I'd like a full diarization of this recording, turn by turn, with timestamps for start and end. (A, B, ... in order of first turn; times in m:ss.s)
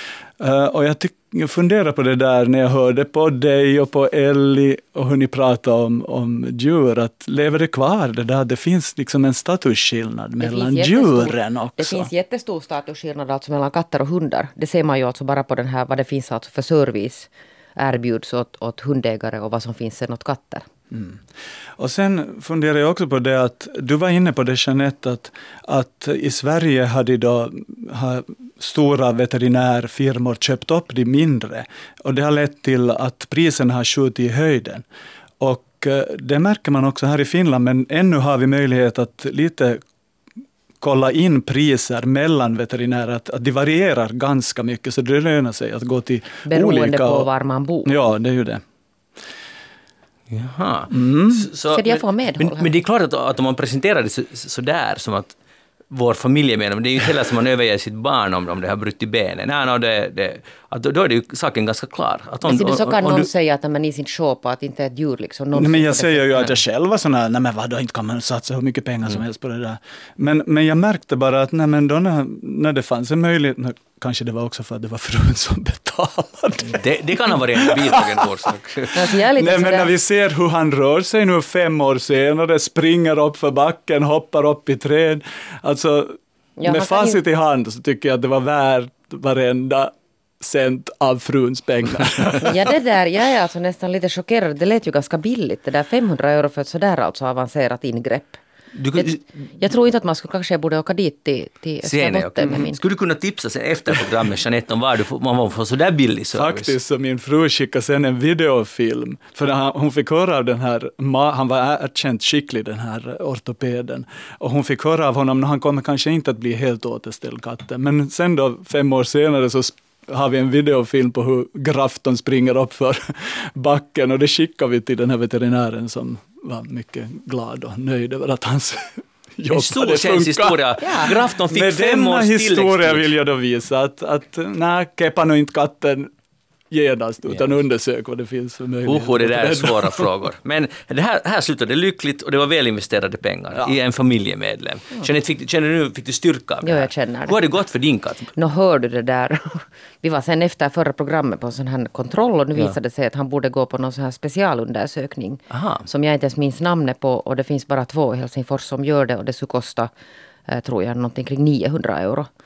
0:00.4-0:12.1 A
0:10.4-0:20.6 B
0:20.9-0:21.2 A
0:21.8-0:34.8 A
0:35.4-0:39.8 A
0:40.8-0:47.3 A
0:46.4-0:47.9 B
0:47.8-0:48.6 A
0:50.3-0:55.3 C
0:50.9-0:51.5 A
0:51.7-0:52.7 B
0:55.9-1:03.3 C
1:02.4-1:06.5 B
1:05.5-1:18.5 A
1:16.7-1:19.1 C
1:18.9-1:19.9 B
1:19.4-1:32.7 A
1:26.6-1:27.2 B
1:32.4-1:38.4 B
1:38.7-1:39.2 C
1:38.9-1:42.8 B
1:41.8-1:46.7 C
1:46.3-2:16.1 A
2:09.5-2:13.1 C
2:10.8-2:11.1 B
2:16.7-2:20.1 A
2:18.8-2:28.3 C
2:26.6-2:27.4 B
2:28.3-2:39.9 B
2:35.5-2:35.9 C
2:40.5-2:42.3 B